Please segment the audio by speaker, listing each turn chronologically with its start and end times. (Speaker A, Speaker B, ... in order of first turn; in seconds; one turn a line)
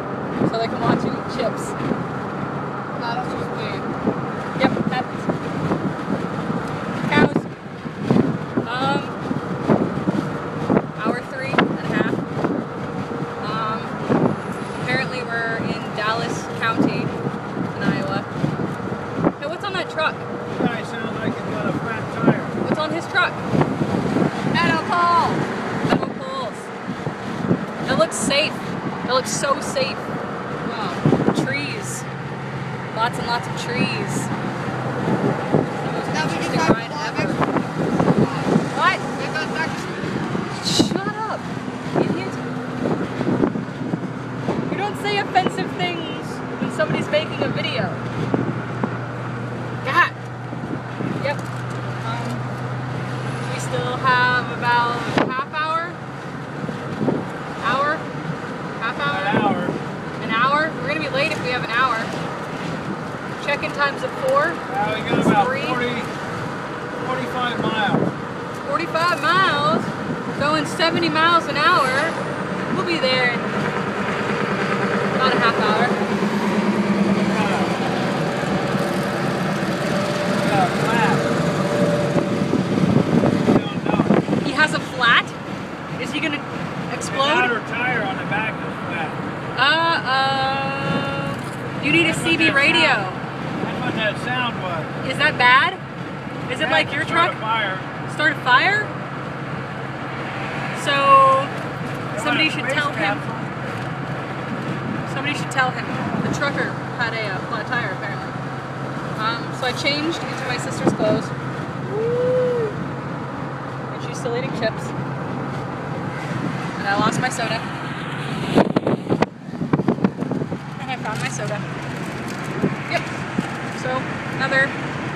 Speaker A: 0.4-1.7
Speaker A: 3.0-3.9
Speaker A: 4.6-5.3
Speaker A: 7.1-7.5
Speaker A: 8.6-9.2
Speaker A: 11.0-12.2
Speaker A: 13.4-13.9
Speaker A: 14.8-17.1
Speaker A: 17.7-18.3
Speaker A: 19.4-20.3
Speaker B: 20.5-22.6
Speaker A: 22.6-23.4
Speaker A: 24.5-26.7
Speaker A: 27.9-30.1
Speaker A: 30.6-32.1
Speaker A: 32.9-34.3
Speaker A: 35.8-37.4
Speaker C: 36.1-37.6
Speaker C: 38.1-38.5
Speaker A: 38.7-39.1
Speaker C: 39.1-40.2
Speaker A: 40.5-42.5
Speaker A: 44.7-48.0
Speaker A: 49.8-50.2
Speaker A: 52.0-52.4
Speaker A: 53.4-56.0
Speaker A: 57.6-58.0
Speaker A: 58.8-59.4
Speaker B: 59.1-59.8
Speaker A: 60.2-62.1
Speaker A: 63.4-64.6
Speaker B: 64.7-66.1
Speaker A: 65.1-65.8
Speaker B: 67.0-68.1
Speaker A: 68.6-72.2
Speaker A: 72.7-73.5
Speaker A: 75.2-76.0
Speaker B: 77.2-77.8
Speaker B: 80.4-81.3
Speaker B: 83.4-84.2
Speaker A: 84.4-85.3
Speaker A: 86.0-87.6
Speaker B: 87.0-89.2
Speaker A: 89.5-93.2
Speaker B: 92.0-93.1
Speaker B: 93.6-94.9
Speaker A: 95.0-95.8
Speaker A: 96.5-97.4
Speaker B: 96.6-97.9
Speaker A: 98.1-98.9
Speaker A: 100.7-101.5
Speaker B: 102.1-103.6
Speaker A: 102.1-103.2
Speaker A: 105.1-108.4
Speaker A: 109.2-112.8
Speaker A: 113.9-114.9
Speaker A: 116.8-117.7
Speaker A: 120.8-121.7
Speaker A: 123.8-124.7